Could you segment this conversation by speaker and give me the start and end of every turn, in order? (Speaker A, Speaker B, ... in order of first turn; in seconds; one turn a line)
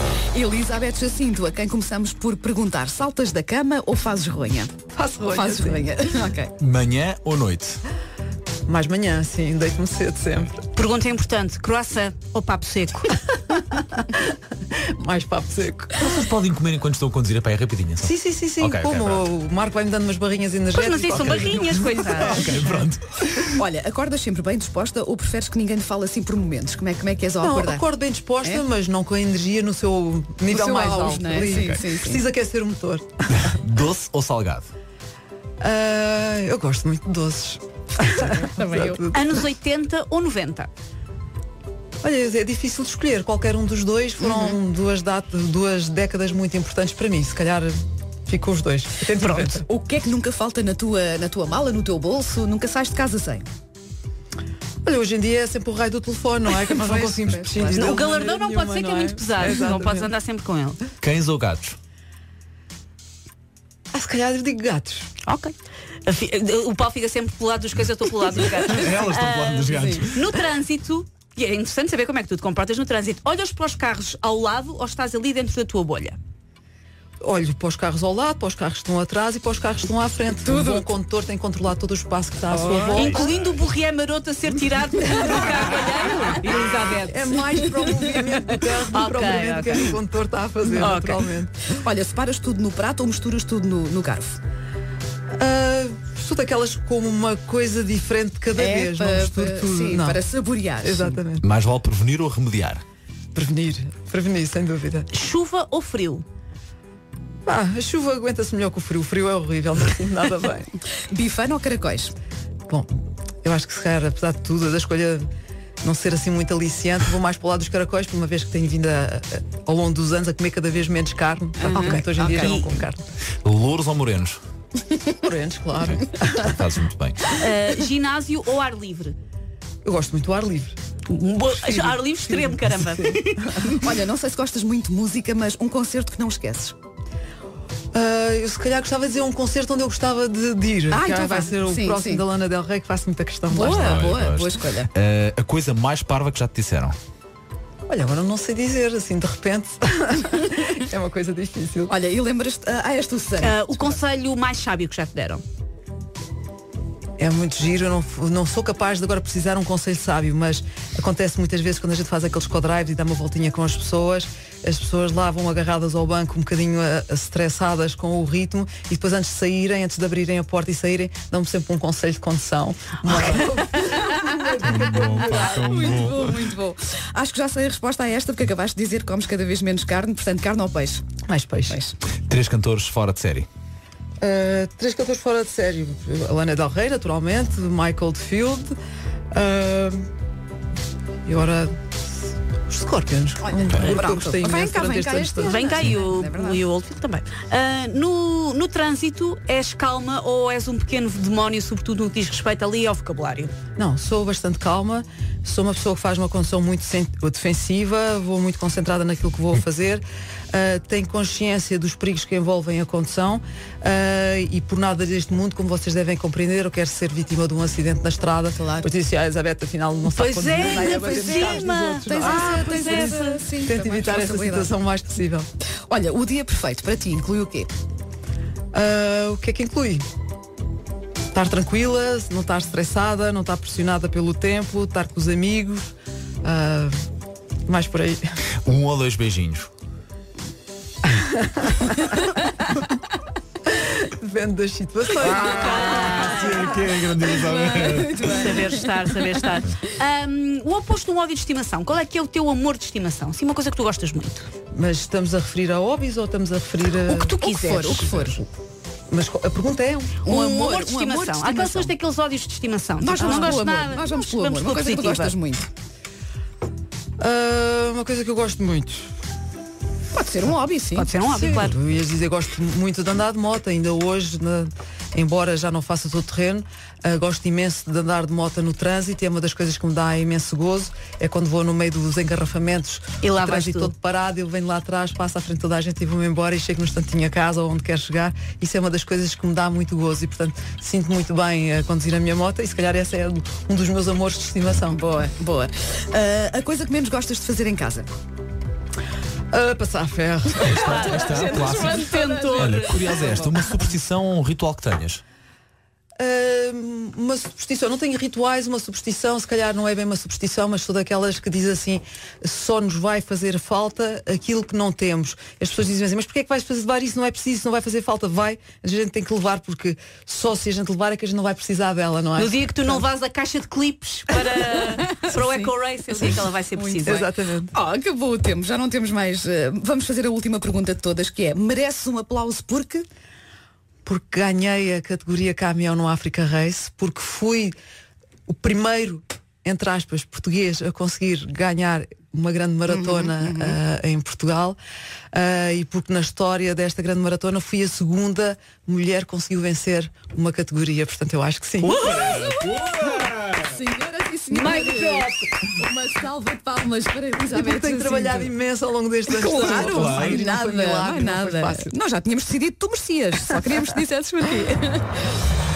Speaker A: 0.3-4.7
Speaker B: 4.9-5.9
Speaker A: 5.2-6.5
Speaker C: 6.6-7.8
Speaker B: 8.7-10.6
Speaker D: 10.7-13.8
Speaker B: 14.1-16.2
Speaker C: 16.0-19.2
Speaker B: 18.0-22.4
Speaker D: 20.7-22.7
Speaker C: 21.0-23.6
Speaker A: 23.5-27.8
Speaker B: 27.4-33.5
Speaker A: 30.5-32.2
Speaker C: 33.4-34.7
Speaker B: 35.6-39.5
Speaker A: 38.0-39.0
Speaker D: 39.1-40.7
Speaker B: 42.0-47.7
Speaker B: 48.3-49.6
Speaker D: 49.2-49.5
Speaker A: 49.5-53.4
Speaker B: 54.8-60.1
Speaker A: 56.5-58.0
Speaker D: 57.7-60.8
Speaker C: 61.0-61.8
Speaker B: 63.9-65.1
Speaker D: 65.2-65.5
Speaker D: 66.0-76.2
Speaker C: 68.6-70.2
Speaker B: 77.2-83.3
Speaker A: 80.4-80.9
Speaker A: 82.5-83.2
Speaker D: 82.7-90.0
Speaker B: 87.0-91.6
Speaker D: 90.7-91.2
Speaker A: 91.7-94.4
Speaker B: 95.4-100.2
Speaker A: 98.5-101.2
Speaker B: 100.8-101.5
Speaker C: 101.4-102.8
Speaker B: 103.3-105.1
Speaker D: 105.1-106.2
Speaker B: 107.5-110.7
Speaker A: 111.1-112.1
Speaker B: 113.4-115.3
Speaker B: 115.8-123.0
Speaker D: 121.6-122.7
Speaker A: 121.6-122.6
Speaker C: 123.4-124.4
Speaker B: 125.2-126.5
Speaker C: 126.0-127.3
Speaker D: 127.3-129.1
Speaker B: 129.8-130.8
Speaker D: 131.1-133.8
Speaker B: 131.5-132.8
Speaker A: 133.7-136.7
Speaker B: 137.9-144.1
Speaker A: 140.9-142.2
Speaker A: 143.5-144.9
Speaker C: 143.5-146.9
Speaker B: 147.9-151.9
Speaker A: 151.9-154.0
Speaker D: 153.4-155.4
Speaker B: 157.2-175.8
Speaker C: 174.7-176.3
Speaker A: 174.7-181.0
Speaker B: 181.2-181.8
Speaker A: 181.7-182.0
Speaker C: 182.3-183.5
Speaker B: 184.2-188.8
Speaker B: 189.3-190.1
Speaker B: 191.2-191.8
Speaker B: 192.7-195.9
Speaker A: 193.4-196.6
Speaker D: 195.4-203.5
Speaker B: 203.8-225.5
Speaker A: 218.6-218.9
Speaker D: 220.1-223.4
Speaker A: 220.6-224.7
Speaker A: 225.9-227.7
Speaker B: 228.7-230.0
Speaker B: 231.3-235.9
Speaker B: 236.4-237.0
Speaker B: 237.7-238.2
Speaker C: 238.6-239.7
Speaker B: 241.0-242.8
Speaker B: 243.6-246.2
Speaker D: 245.2-246.8
Speaker C: 245.2-248.2
Speaker A: 246.4-249.6
Speaker D: 248.2-254.5
Speaker B: 254.7-257.4
Speaker D: 257.0-258.1
Speaker A: 257.4-258.4
Speaker B: 259.1-260.2
Speaker D: 260.2-265.4
Speaker A: 260.2-261.9
Speaker A: 263.0-265.7
Speaker B: 267.2-269.1
Speaker A: 270.1-271.1
Speaker D: 270.9-271.8
Speaker B: 271.2-295.0
Speaker D: 283.2-283.9
Speaker A: 294.9-298.1
Speaker B: 299.5-301.1
Speaker C: 300.6-305.2
Speaker A: 300.8-303.5
Speaker D: 300.9-303.2
Speaker B: 306.2-323.1
Speaker D: 322.4-327.2
Speaker A: 325.3-333.0
Speaker B: 327.0-327.7
Speaker B: 334.1-337.7
Speaker B: 338.5-344.8
Speaker A: 343.2-343.7
Speaker B: 345.3-352.0
Speaker C: 351.8-353.7
Speaker A: 352.0-358.5
Speaker D: 354.6-355.3
Speaker B: 357.5-361.9
Speaker A: 359.3-365.1
Speaker C: 359.5-360.4